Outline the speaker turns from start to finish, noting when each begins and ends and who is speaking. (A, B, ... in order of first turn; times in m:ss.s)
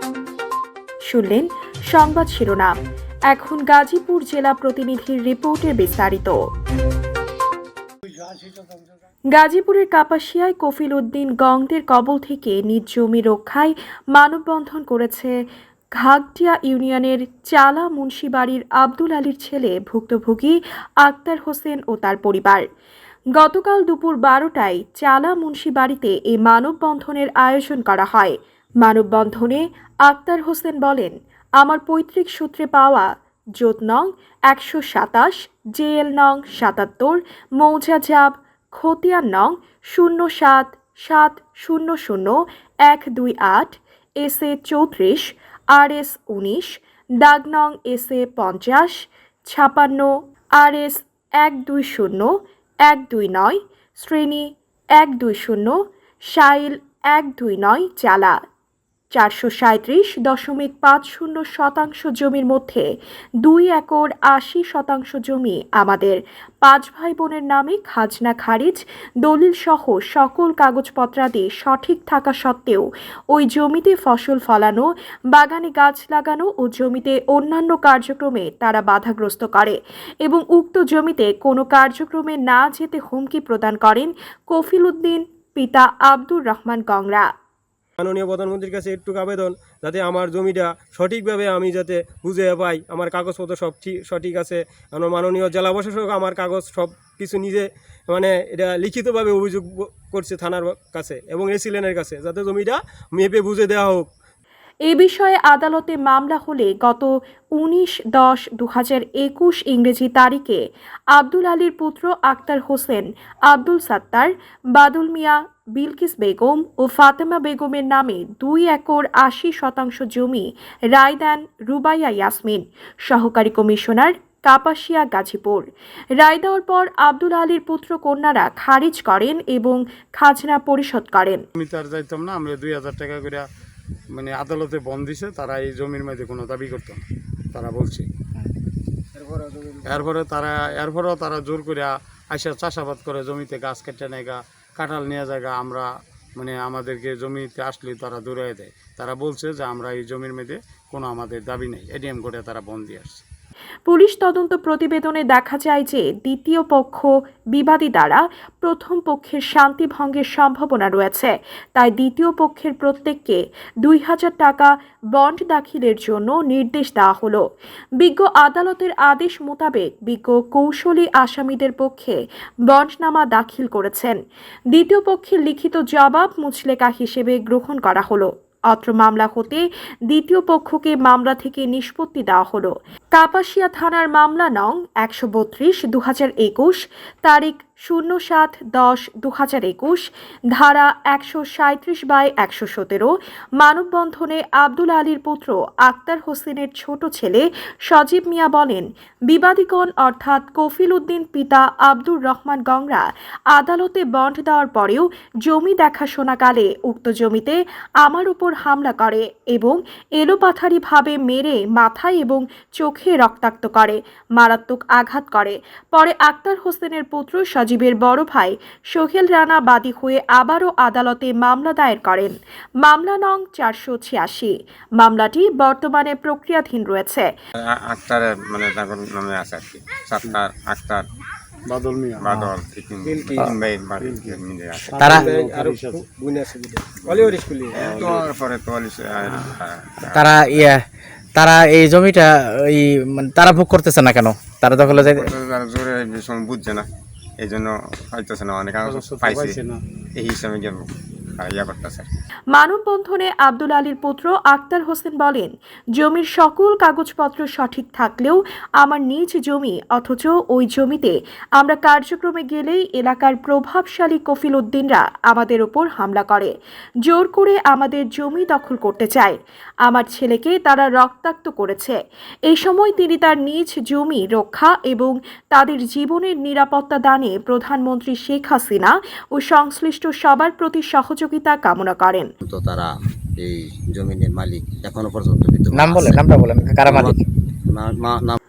0:01.1-0:02.7 A
0:03.3-0:06.4 A
0:09.3-0:15.4 A
0:16.0-0:22.6 A
0:23.4-0:33.1 A
0:33.6-0:52.3 A
0:52.8-0:55.8 A
0:56.3-0:58.4 A
0:59.1-1:02.8 A
1:03.4-1:27.3 A
1:28.0-1:44.1 B
1:44.9-1:50.6 A
1:51.1-2:05.6 A
2:06.2-2:11.4 A
2:11.6-2:13.4 C
2:14.1-2:18.1 C
2:19.8-2:33.2 C
2:33.9-2:47.4 A
2:48.0-2:52.2 A
2:52.7-2:54.2 A
2:54.7-3:47.3 A
3:47.7-3:51.0 D
3:51.7-3:52.3 C
3:52.2-3:55.0 D
3:54.0-3:54.4 C
3:54.9-3:55.3 E
3:54.9-3:56.0 C
3:55.5-3:55.8 B
3:57.0-4:00.8 D
3:57.7-3:58.2 C
4:00.1-4:00.8 E
4:01.4-4:05.3 E
4:04.8-4:06.8 D
4:07.4-4:09.6 D
4:08.8-4:09.8 C
4:10.2-4:12.1 D
4:12.5-4:26.5 A
4:27.0-4:32.0 A
4:32.5-4:42.3 A
4:42.4-4:46.2 F
4:45.7-4:47.2 E
4:46.8-4:47.2 F
4:47.7-4:48.4 F